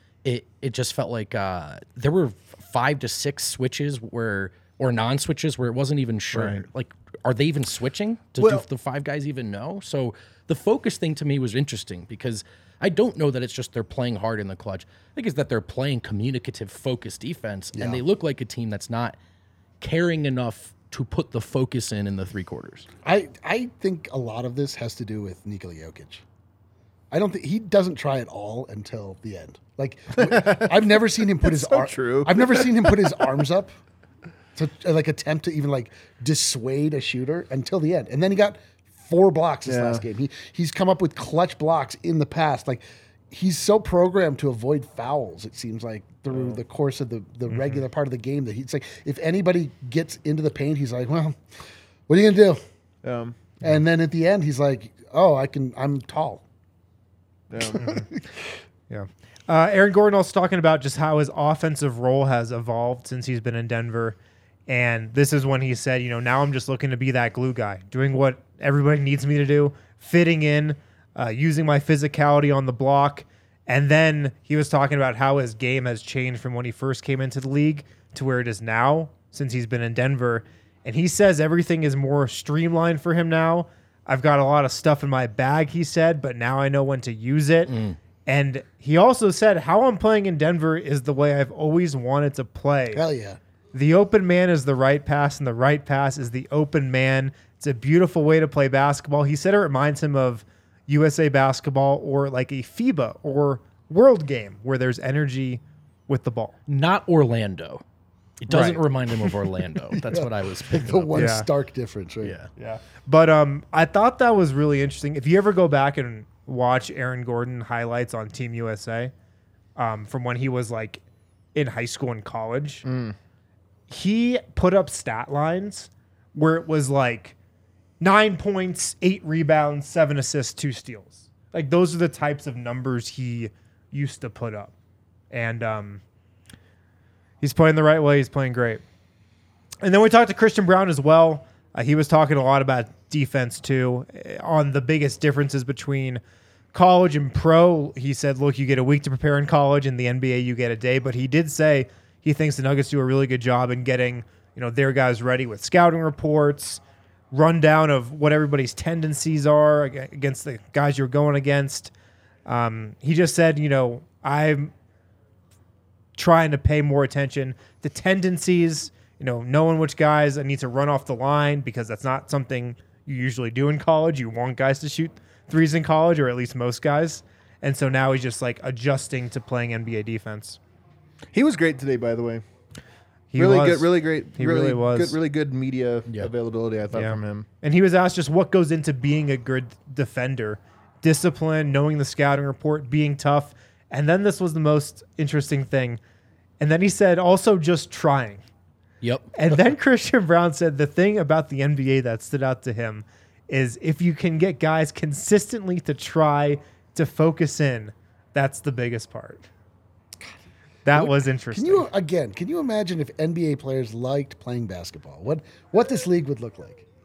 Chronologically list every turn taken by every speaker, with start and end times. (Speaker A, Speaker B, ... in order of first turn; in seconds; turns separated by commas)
Speaker A: 0.2-19.1, Speaker B: 6.3-6.6, Speaker B: 8.4-8.7, Speaker C: 17.7-18.0, Speaker A: 19.8-22.9, Speaker C: 23.0-26.2, Speaker C: 27.1-33.7, Speaker B: 30.1-33.2, Speaker C: 34.5-51.4, Speaker B: 39.6-40.0, Speaker B: 46.3-46.6, Speaker D: 47.5-47.8, Speaker C: 52.1-52.6, Speaker B: 53.0-53.5, Speaker C: 53.6-56.4, Speaker B: 57.5-57.9, Speaker C: 57.7-58.2, Speaker D: 57.8-58.0, Speaker D: 58.9-87.7, Speaker A: 87.7-88.0, Speaker D: 88.2-93.0, Speaker C: 92.9-93.4, Speaker D: 93.7-106.5, Speaker A: 106.7-107.8, Speaker A: 108.4-111.3, Speaker B: 108.5-108.8, Speaker C: 109.9-112.3, Speaker D: 111.2-111.5, Speaker A: 112.2-112.5, Speaker D: 113.0-119.1, Speaker D: 119.8-121.0, Speaker D: 121.5-122.8, Speaker B: 122.8-123.1, Speaker D: 123.9-127.3, Speaker D: 128.0-134.7, Speaker D: 135.3-136.0, Speaker D: 137.4-138.8, Speaker D: 139.8-146.2, Speaker D: 146.7-161.9, Speaker D: 162.4-164.7, Speaker D: 166.2-180.6, Speaker B: 181.3-182.4, Speaker D: 183.3-185.2, Speaker B: 183.3-187.4, Speaker D: 186.9-196.0, Speaker D: 196.6-198.4, Speaker A: 199.0-199.3, Speaker D: 199.3-209.4, Speaker D: 210.8-211.9, Speaker C: 210.9-216.8